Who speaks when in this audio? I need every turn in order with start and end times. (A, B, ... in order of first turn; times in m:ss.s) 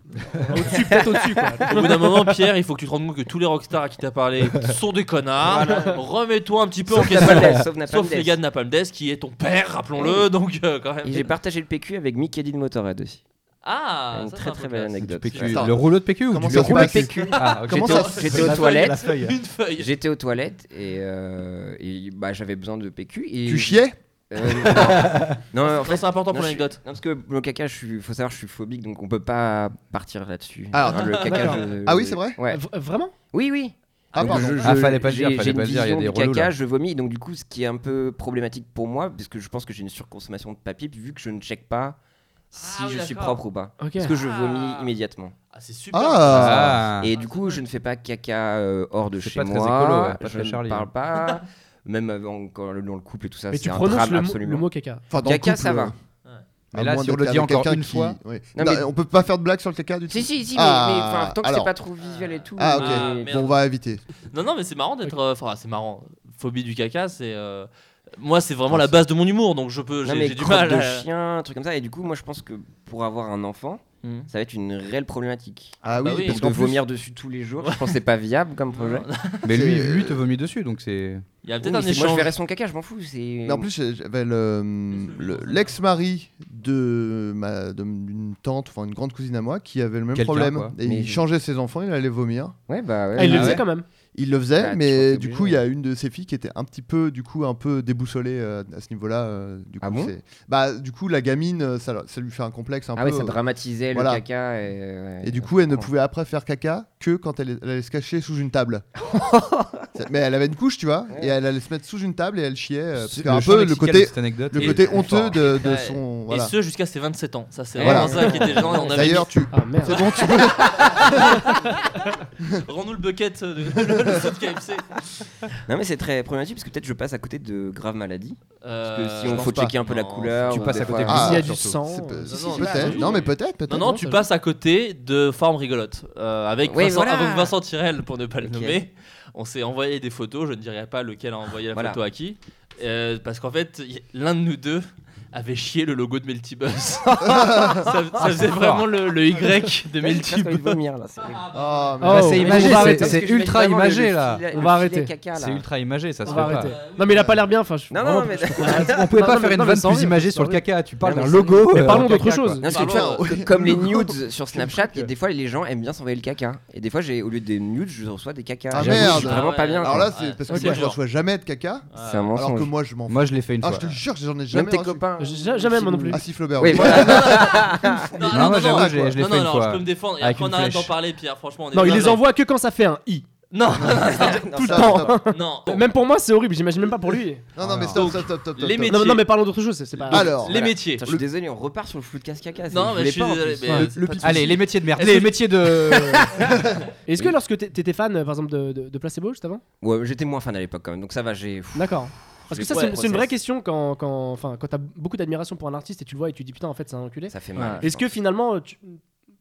0:00.4-0:02.1 A
0:00.7-0:01.6 B
0:01.7-0:11.3 C
0:05.4-0:06.0 B
0:06.9-0:08.4 B
0:10.0-0:10.3 B
0:11.0-0:13.2 B
0:13.6-0:15.7 C
0:14.1-0:15.7 B
0:15.0-0:19.4 D
0:16.3-0:18.5 E
0:16.4-0:19.0 B
0:17.8-0:19.9 C
0:19.8-0:32.6 B
0:23.5-0:25.1 E
0:25.6-0:26.8 C
0:30.7-0:32.4 E
0:30.9-0:31.7 C
0:31.3-0:31.6 A
0:32.5-0:33.1 A
0:33.3-0:42.0 B
0:34.1-0:34.4 C
0:34.2-0:34.7 E
0:34.2-0:36.5 D
0:42.5-0:43.4 C
0:42.5-0:45.4 B
0:43.8-0:44.1 A
0:44.0-0:44.9 C
0:45.5-0:47.6 C
0:45.9-0:46.9 E
0:46.3-0:47.1 D
0:47.0-0:55.9 B
0:49.2-0:50.9 D
0:53.5-0:55.0 A
0:55.1-0:56.0 E
0:56.7-1:01.7 E
0:56.7-0:58.2 D
0:58.6-0:58.9 B
1:00.1-1:03.4 B
1:02.0-1:03.6 C
1:02.6-1:04.0 E
1:04.3-1:11.0 C
1:08.7-1:09.0 E
1:10.0-1:19.1 B
1:14.0-1:14.3 C
1:15.8-1:16.8 E
1:16.0-1:16.4 C
1:17.6-1:17.9 C
1:18.7-1:19.5 C
1:19.4-1:21.2 D
1:19.5-1:20.2 E
1:21.4-1:22.4 C
1:21.6-1:23.7 B
1:23.4-1:32.6 E
1:24.9-1:25.8 C
1:30.1-1:30.7 D
1:30.8-1:31.2 B
1:32.7-1:33.6 B
1:33.2-1:33.8 A
1:33.2-1:33.6 D
1:33.3-1:33.6 E
1:34.2-1:43.4 E
1:34.6-1:35.6 B
1:39.8-1:40.1 B
1:43.0-1:45.9 B
1:43.9-1:44.2 E
1:45.2-1:48.8 E
1:49.1-1:49.9 B
1:50.0-1:56.5 E
1:53.0-1:55.4 D
1:55.3-1:59.3 C
1:57.8-1:59.1 B
1:57.8-2:01.4 E
1:59.5-2:00.0 A
1:59.9-2:05.2 C
2:05.7-2:11.4 B
2:08.6-2:10.9 C
2:09.3-2:09.7 E
2:10.5-2:11.8 D
2:11.1-2:14.0 E
2:11.1-2:14.2 A
2:12.2-2:30.8 C
2:16.6-2:17.5 B
2:18.4-2:18.8 B
2:21.7-2:22.0 B
2:27.3-2:27.9 E
2:28.2-2:28.9 D
2:29.9-2:31.5 B
2:31.3-2:31.9 C
2:31.5-2:32.8 E
2:32.0-2:33.2 A
2:32.0-2:34.4 D
2:32.4-2:35.7 B
2:34.5-2:35.2 A
2:35.3-2:36.8 D
2:36.2-2:37.3 C
2:36.3-2:40.6 A
2:37.1-2:37.3 E
2:37.9-2:39.2 B
2:38.0-2:42.6 D
2:41.0-2:42.1 B
2:41.7-2:42.6 A
2:42.6-2:50.1 B
2:42.6-2:43.3 C
2:42.6-2:45.1 E
2:48.7-2:55.0 E
2:48.8-2:49.2 D
2:48.9-2:51.0 C
2:50.5-2:50.8 A
2:51.9-2:52.3 C
2:52.0-2:52.7 B
2:53.1-2:53.9 D
2:54.5-2:58.1 B
2:55.2-2:56.2 A
2:56.1-2:59.2 E
2:56.8-2:57.3 A
2:56.8-3:02.2 C
2:58.2-3:00.9 D
3:01.7-3:03.3 A
3:03.5-3:05.9 C
3:03.9-3:05.1 B
3:04.2-3:07.5 A
3:04.6-3:05.2 E
3:07.6-3:09.1 E
3:07.6-3:08.1 D
3:07.9-3:09.3 C
3:08.9-3:10.4 A
3:10.0-3:11.0 C
3:10.1-3:11.2 E
3:10.2-3:14.4 B
3:12.7-3:15.4 C
3:13.7-3:16.5 D
3:17.1-3:19.6 A
3:19.8-3:23.3 B
3:21.7-3:29.0 A
3:22.7-3:23.0 C
3:27.3-3:28.1 B
3:27.6-3:27.8 C